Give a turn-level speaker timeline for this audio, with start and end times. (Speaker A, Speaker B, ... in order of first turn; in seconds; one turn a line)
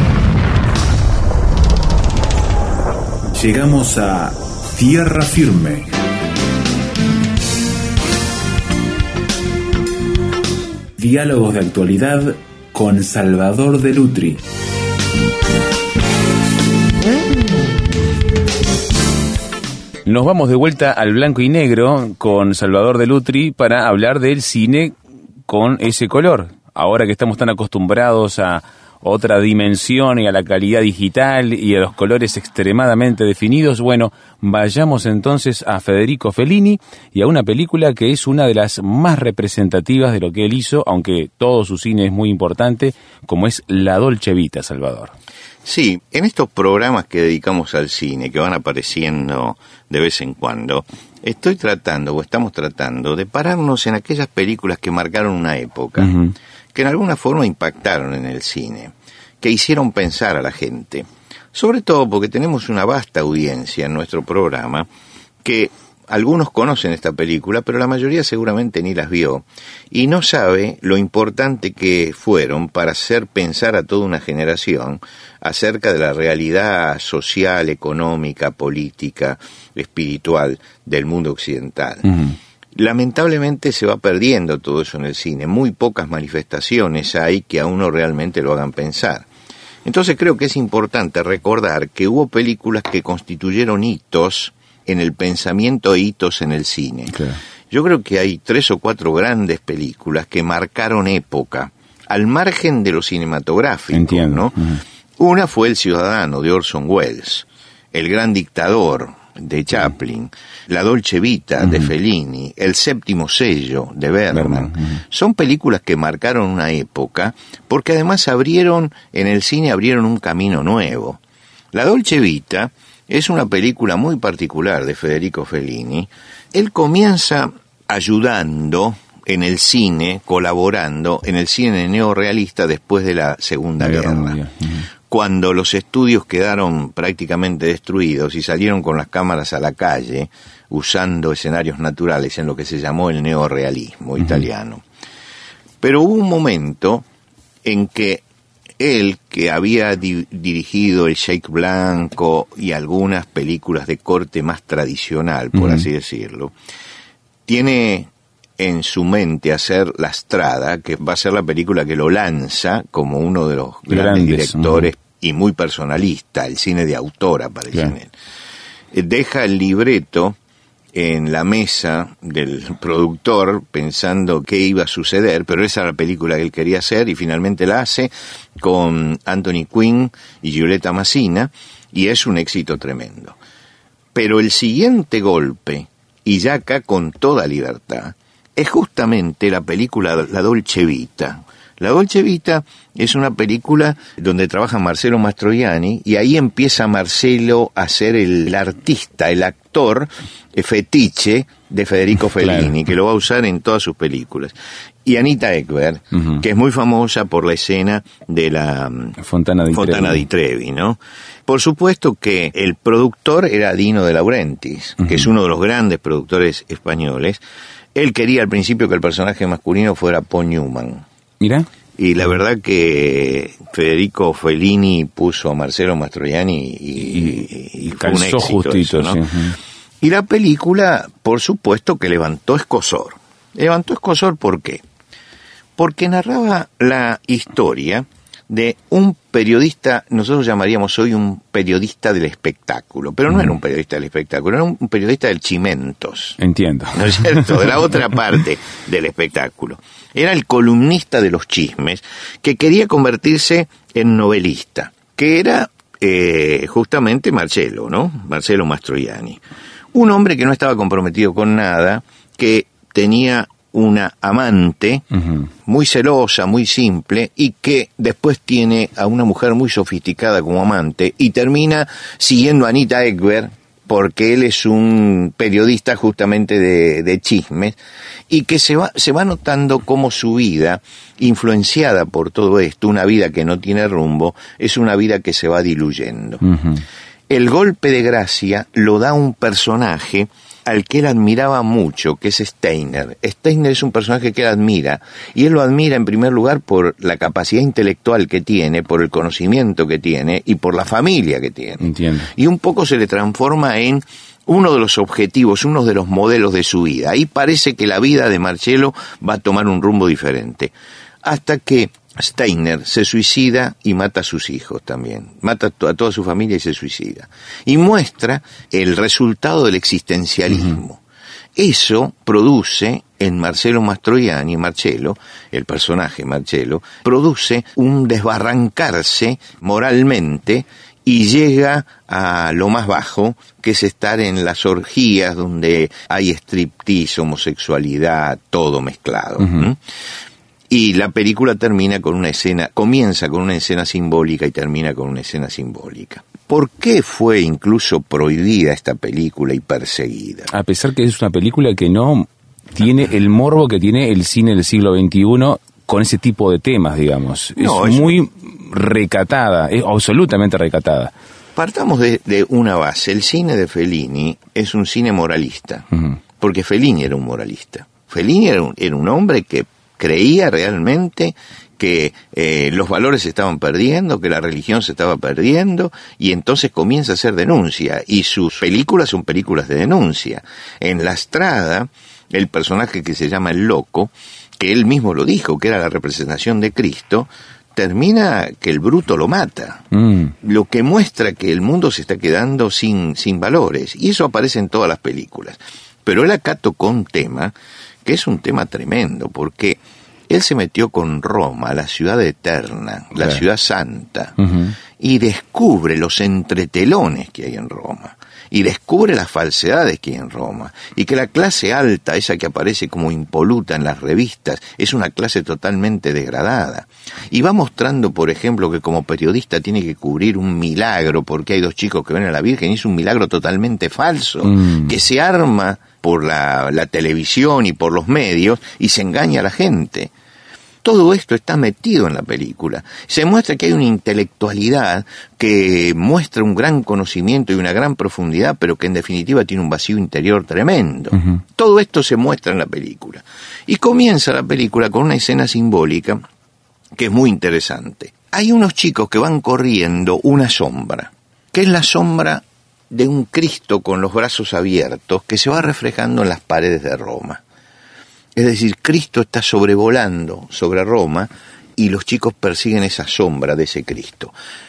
Speaker A: 3.3-6.0
Speaker A: 11.0-14.4
Speaker B: 20.0-45.1
Speaker C: 45.6-64.9
Speaker B: 56.0-56.3
Speaker C: 65.4-89.2
Speaker C: 89.8-121.2
Speaker B: 97.1-97.4
Speaker B: 103.9-104.8
Speaker B: 111.6-111.9
Speaker B: 114.3-115.0
Speaker C: 121.7-134.4
Speaker B: 133.8-134.8
Speaker C: 135.1-144.8
Speaker C: 145.8-147.0
Speaker C: 147.6-148.2
Speaker C: 148.8-156.5
Speaker B: 155.5-155.8
Speaker C: 157.5-168.1
Speaker B: 163.9-164.9
Speaker C: 168.9-170.4
Speaker C: 170.9-183.3
Speaker C: 184.1-209.2
Speaker B: 202.4-202.7
Speaker B: 209.2-210.2
Speaker C: 209.7-217.4
Speaker C: 217.9-221.0
Speaker B: 221.4-221.7
Speaker C: 222.0-229.2
Speaker B: 227.9-229.6
Speaker C: 230.0-234.8
Speaker C: 235.8-246.4
Speaker B: 246.4-247.7
Speaker C: 246.9-259.4
Speaker C: 259.9-265.1
Speaker C: 265.6-277.8
Speaker C: 278.3-286.4
Speaker B: 286.4-286.8
Speaker C: 287.3-310.7
Speaker B: 301.8-302.3
Speaker C: 311.2-321.0
Speaker C: 321.6-339.8
Speaker C: 340.7-350.5
Speaker B: 350.5-361.1
Speaker C: 357.6-358.2
Speaker C: 361.6-365.9
Speaker C: 366.4-389.9
Speaker B: 389.9-390.3
Speaker C: 390.4-397.5
Speaker C: 398.0-404.4
Speaker B: 404.4-404.7
Speaker C: 405.0-430.1
Speaker B: 424.4-424.9
Speaker C: 430.8-446.2
Speaker C: 446.9-457.4
Speaker C: 458.4-464.3